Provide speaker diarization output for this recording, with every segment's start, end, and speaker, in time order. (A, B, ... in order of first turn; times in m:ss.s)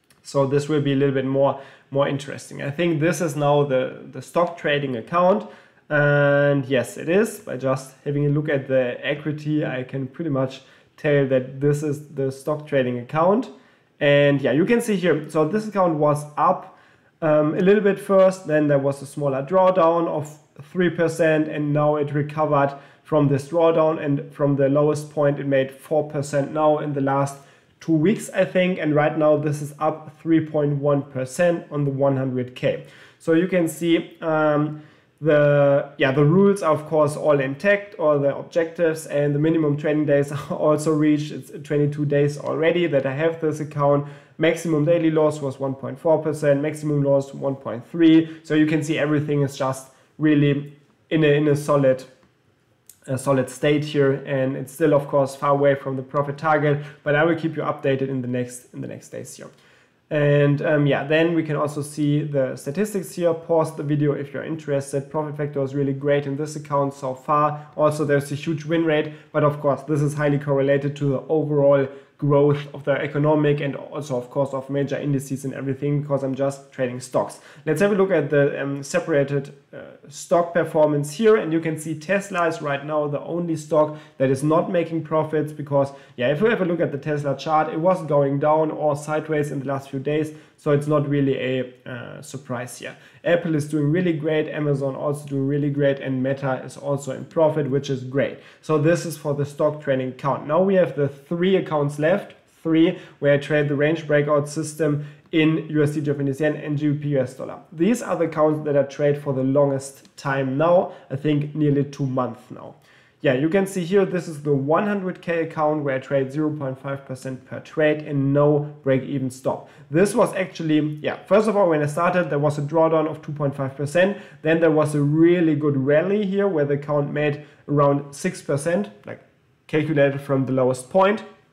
0:00.2-0:52.1 A
0:53.1-0:59.5 A
1:00.1-2:11.2 A